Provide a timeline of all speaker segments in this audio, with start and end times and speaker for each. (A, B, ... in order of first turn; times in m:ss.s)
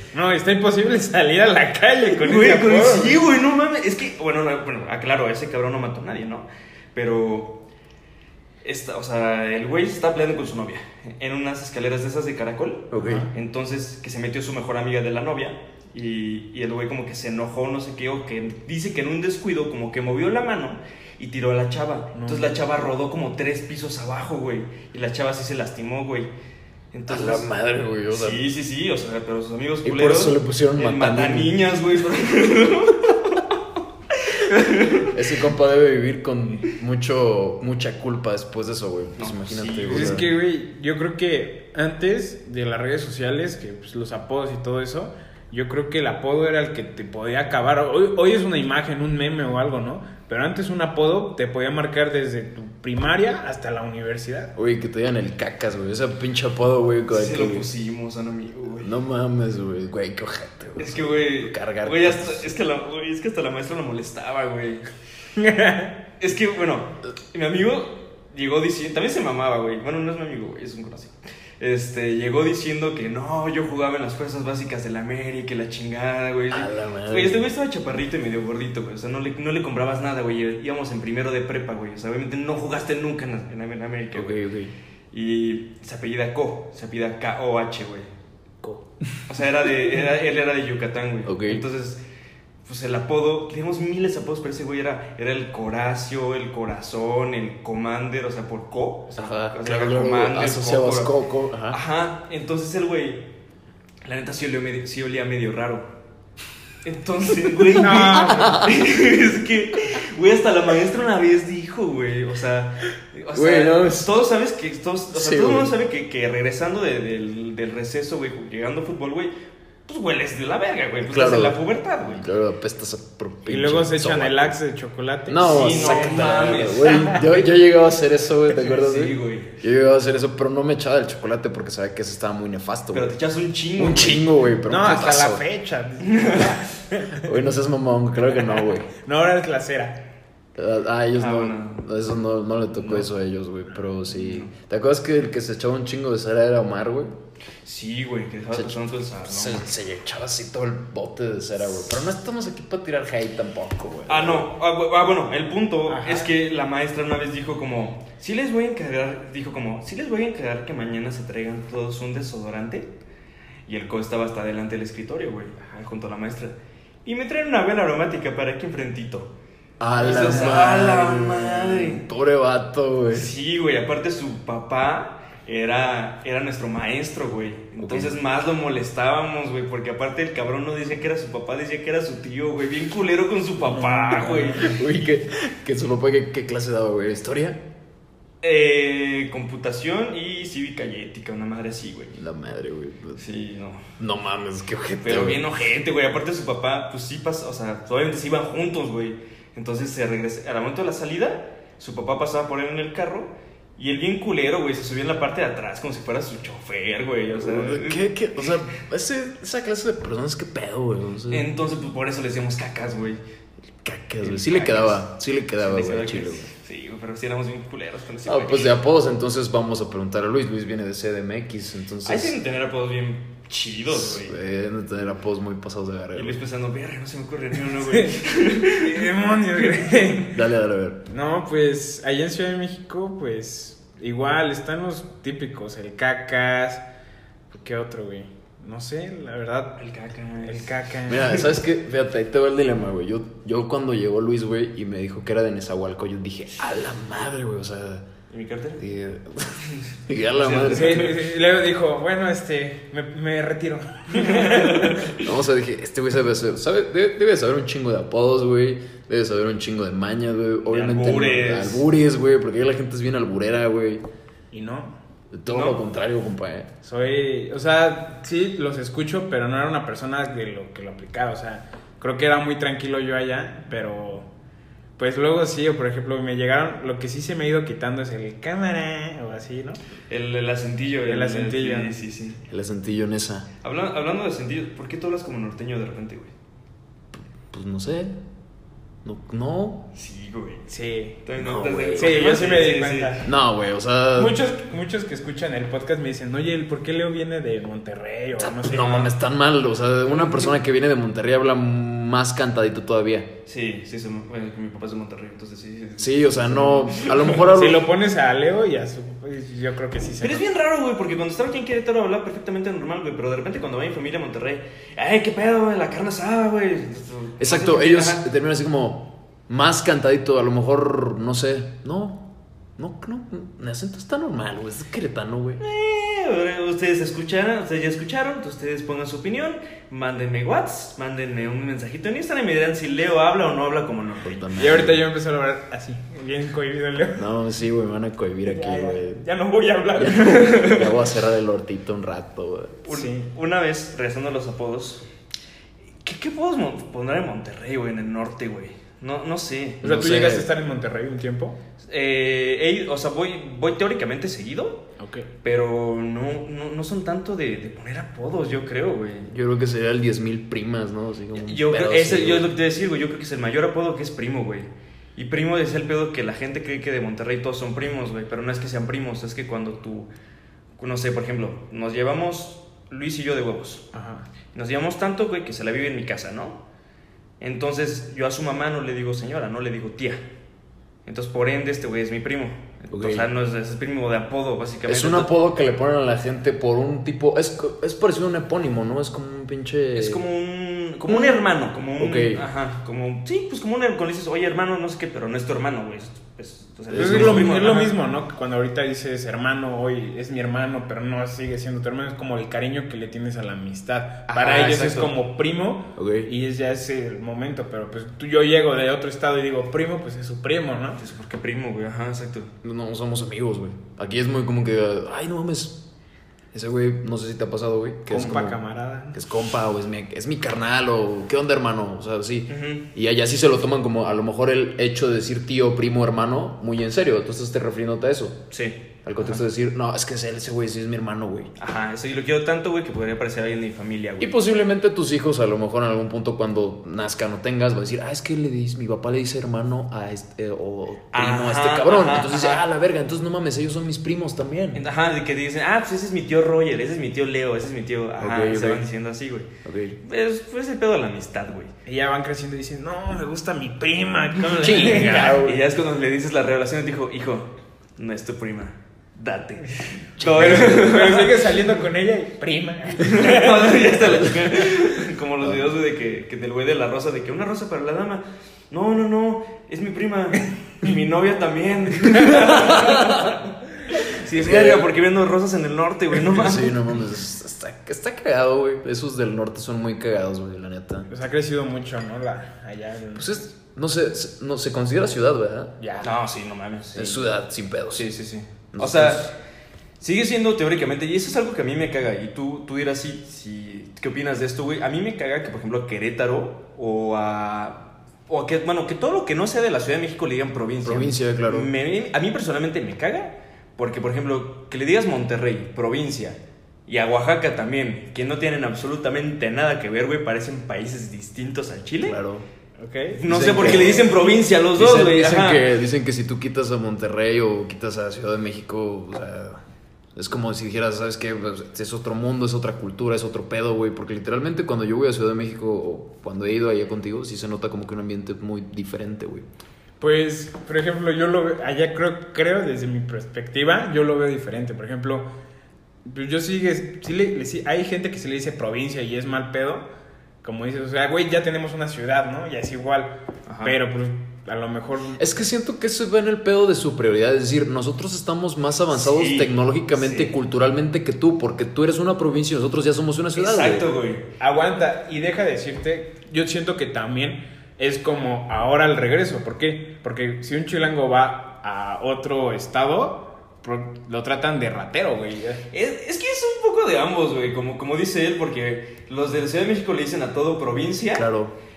0:00.1-0:03.2 A
0:02.2-0:07.6 B
0:08.6-0:26.3 B
0:12.9-0:13.3 C
0:13.0-0:13.3 A
0:22.1-0:22.5 A
0:26.9-0:27.5 B
0:27.1-0:28.4 C
0:28.1-0:33.5 B
0:29.8-0:31.6 C
0:34.2-0:35.1 B
0:35.1-0:40.3 C
0:39.2-0:40.2 B
0:39.9-0:54.5 A
0:54.6-0:57.7 C
0:57.1-0:58.9 B
0:58.8-1:02.6 C
1:00.8-1:04.8 B
1:05.4-1:05.9 A
1:06.2-1:24.4 B
1:16.5-1:17.5 C
1:24.1-1:24.7 C
1:25.1-1:28.1 B
1:29.3-1:32.0 B
1:31.2-1:31.6 C
1:32.7-1:41.1 B
1:39.2-1:41.8 C
1:41.7-1:43.3 B
1:44.0-1:45.9 B
1:46.8-1:59.3 B
1:47.7-1:48.8 C
1:47.7-1:48.7 A
1:53.3-1:54.2 C
1:55.1-1:55.7 C
1:59.9-2:02.3 B
2:01.0-2:04.6 C
2:03.5-2:07.2 A
2:05.3-2:13.1 C
2:05.4-2:07.5 B
2:08.5-2:09.6 B
2:12.9-2:14.3 B
2:13.8-2:15.4 C
2:14.7-2:17.4 A
2:16.0-2:16.6 B
2:17.2-2:18.9 C
2:18.9-2:20.1 A
2:20.6-2:27.1 C
2:21.2-2:21.9 B
2:22.7-2:23.1 B
2:24.1-2:24.5 B
2:27.6-2:29.7 B
2:28.5-2:34.5 C
2:34.1-2:42.9 B
2:35.9-2:36.3 A
2:43.7-2:49.3 B
2:49.8-2:53.3 C
2:50.0-2:52.0 B
2:50.1-2:50.5 A
2:53.1-3:04.7 B
2:57.8-2:58.2 C
3:03.6-3:04.7 A
3:04.5-3:07.6 C
3:08.4-3:12.2 B
3:12.1-3:13.2 C
3:13.2-3:13.9 B
3:14.0-3:15.6 C
3:15.0-3:28.1 B
3:27.4-3:31.5 C
3:31.3-3:33.2 B
3:33.8-3:36.5 C
3:34.2-3:35.0 B
3:35.6-3:38.7 B
3:38.2-3:42.4 C
3:42.0-3:44.4 B
3:43.9-3:46.4 C
3:46.2-3:49.1 B
3:47.9-3:48.2 A
3:48.7-3:50.4 A
3:50.3-3:51.0 C
3:51.1-3:56.8 A
3:57.5-3:59.8 A
3:59.8-4:00.7 B
4:00.4-4:01.4 A
4:01.1-4:08.1 C
4:08.3-4:08.8 B
4:08.8-4:11.2 C
4:09.7-4:11.2 B
4:10.7-4:15.1 A
4:14.2-4:15.2 B
4:15.2-4:24.0 C
4:20.6-4:21.9 B
4:24.5-4:25.0 A
4:25.3-4:26.7 C
4:25.5-4:25.8 B
4:26.8-4:34.3 A
4:35.0-4:39.8 A
4:40.1-4:42.4 B
4:41.1-4:42.0 A
4:42.5-4:43.5 C
4:43.6-4:46.3 B
4:47.2-4:48.2 C
4:49.0-4:49.9 C
4:50.0-4:50.7 B
4:50.7-4:51.2 A
4:51.2-4:53.2 B
4:51.4-4:52.4 C
4:52.0-4:53.3 A
4:53.2-4:54.4 C
4:54.2-4:59.1 A
4:58.4-5:03.3 C
5:03.5-5:07.5 B
5:06.0-5:07.9 C
5:07.5-5:10.5 A
5:10.2-5:18.2 B
5:17.4-5:25.6 C
5:25.6-5:34.5 B
5:34.2-5:35.0 C
5:34.6-5:37.2 A
5:37.2-5:39.2 C
5:38.4-5:40.6 A
5:40.0-5:42.8 C
5:40.3-5:40.9 B
5:42.8-5:45.0 B
5:42.9-5:43.3 A
5:46.0-5:49.8 B
5:49.8-5:50.5 C
5:49.8-5:51.6 A
5:51.8-5:54.8 B
5:55.0-5:55.3 A
5:55.4-5:59.3 B
5:59.3-6:02.5 C
6:01.4-6:10.1 B
6:10.8-6:13.9 B
6:13.9-6:14.3 A
6:14.5-6:16.6 B
6:17.4-6:20.2 B
6:21.1-6:25.3 B
6:22.9-6:23.3 C
6:24.9-6:30.2 C
6:29.9-6:38.0 B
6:31.0-6:31.4 C
6:32.0-6:32.4 C
6:36.9-6:37.6 C
6:36.9-6:51.0 A
6:44.3-6:45.1 B
6:46.0-6:46.3 C
6:51.0-6:52.5 B
6:52.6-6:55.8 C
6:56.5-6:58.6 C
6:58.1-6:59.2 A
6:59.1-7:08.4 C
7:02.5-7:02.9 B
7:08.5-7:09.4 B
7:09.0-7:11.5 C
7:11.6-7:14.3 B
7:14.2-7:24.8 C
7:21.1-7:22.6 B
7:24.8-7:29.5 B
7:28.2-7:28.8 C
7:29.6-7:30.0 C
7:30.0-7:31.7 B
7:31.9-7:35.4 A
7:34.6-7:35.6 C
7:34.6-7:41.5 B
7:40.2-7:40.9 C
7:40.4-7:43.9 A
7:43.0-7:56.9 B
7:45.4-7:45.7 C
7:52.7-7:53.0 C
7:54.3-7:54.9 C
7:56.3-8:01.1 C
8:01.1-8:03.4 A
8:03.2-8:05.8 C
8:05.8-8:06.1 A
8:06.0-8:07.3 B
8:07.0-8:08.1 C
8:07.9-8:09.3 B
8:08.7-8:09.3 C
8:10.0-8:32.2 B
8:20.8-8:21.7 C
8:32.0-8:32.5 C
8:32.8-8:33.2 A
8:33.1-8:35.7 B
8:33.3-8:34.2 C
8:34.7-8:39.6 C
8:40.2-8:49.5 C
8:50.0-8:55.3 A
8:56.0-8:59.9 A
9:00.4-9:05.3 A
9:03.5-9:03.8 B
9:05.2-9:13.9 C
9:08.9-9:10.3 B
9:13.4-9:14.3 B
9:14.4-9:25.6 A
9:25.7-9:31.3 B
9:31.2-9:31.6 C